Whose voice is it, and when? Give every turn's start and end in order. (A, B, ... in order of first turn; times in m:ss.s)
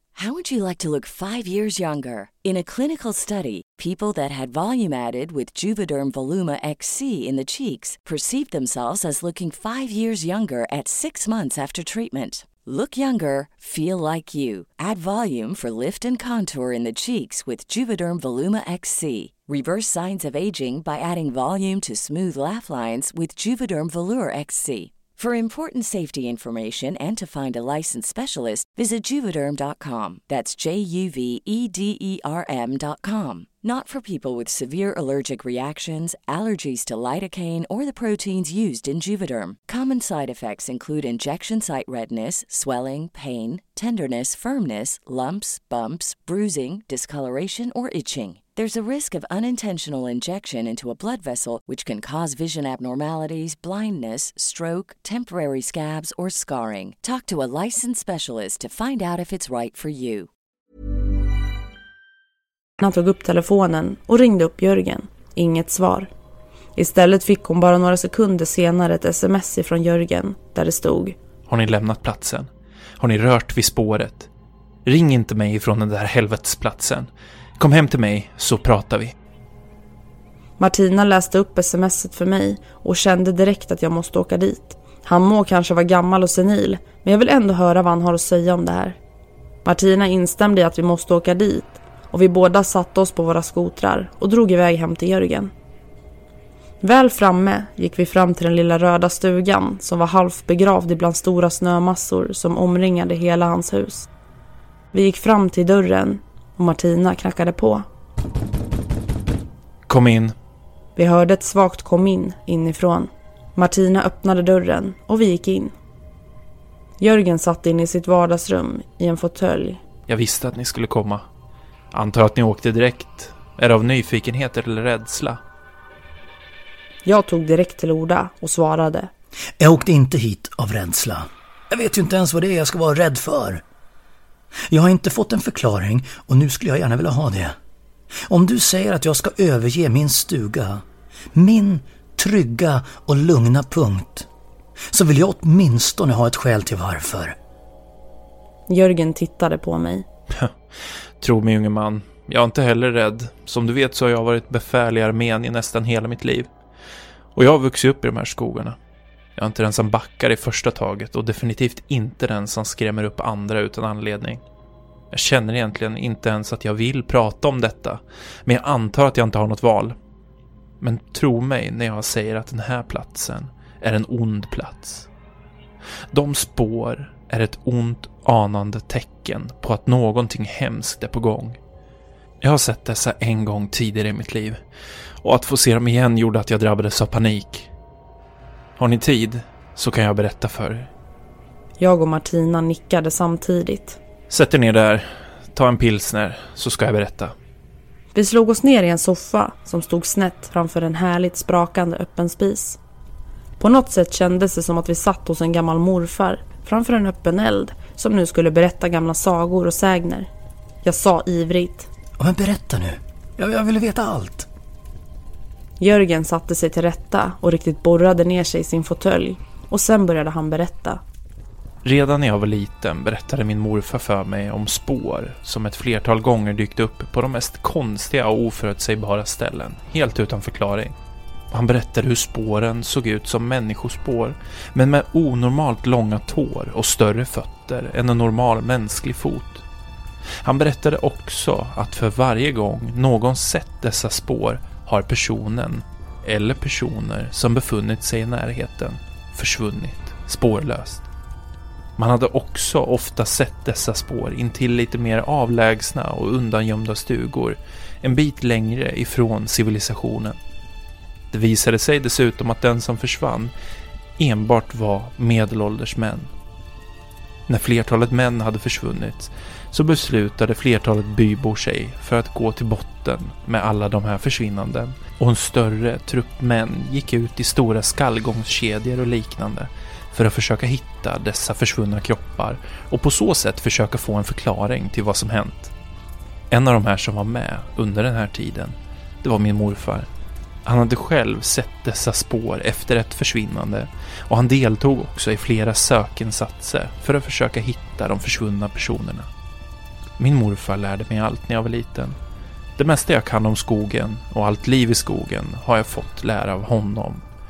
0:00.2-1:00.3 A
1:02.8-1:06.1 B
1:06.8-1:11.2 B
1:11.5-1:12.5 C
1:13.0-1:14.3 C
1:14.8-1:19.1 C
1:20.6-1:29.0 B
1:29.6-1:35.5 B
1:36.8-1:44.1 B
1:44.9-1:47.8 B
1:49.9-1:50.4 C
1:51.0-1:55.7 B
1:57.0-1:59.8 B
2:00.1-2:01.2 C
2:01.9-2:05.4 C
2:07.1-2:09.1 B
2:09.6-2:13.6 D
2:14.7-2:17.6 D
2:18.3-2:24.3 D
2:24.9-2:27.4 D
2:28.7-2:30.1 B
2:31.2-2:36.5 C
2:37.4-2:38.8 C
2:39.4-2:44.4 C
2:45.1-2:50.0 C
2:50.8-2:55.1 C
2:56.1-3:01.6 C
3:02.4-3:04.6 C
3:05.2-3:07.7 C
3:08.8-3:10.9 C
3:11.8-3:14.0 B
3:14.3-3:17.4 C
3:18.1-3:22.8 B
3:23.6-3:30.3 B
3:30.8-3:31.9 B
3:32.2-3:34.5 D
3:35.8-3:41.0 B
3:41.8-3:50.9 C
3:51.5-3:59.6 C
4:00.4-4:11.0 C
4:12.0-4:20.4 C
4:21.3-4:23.5 C
4:24.2-4:26.3 C
4:27.5-4:45.7 C
4:46.5-4:50.1 C
4:50.7-4:59.3 C
5:00.2-5:02.2 C
5:02.8-5:07.2 C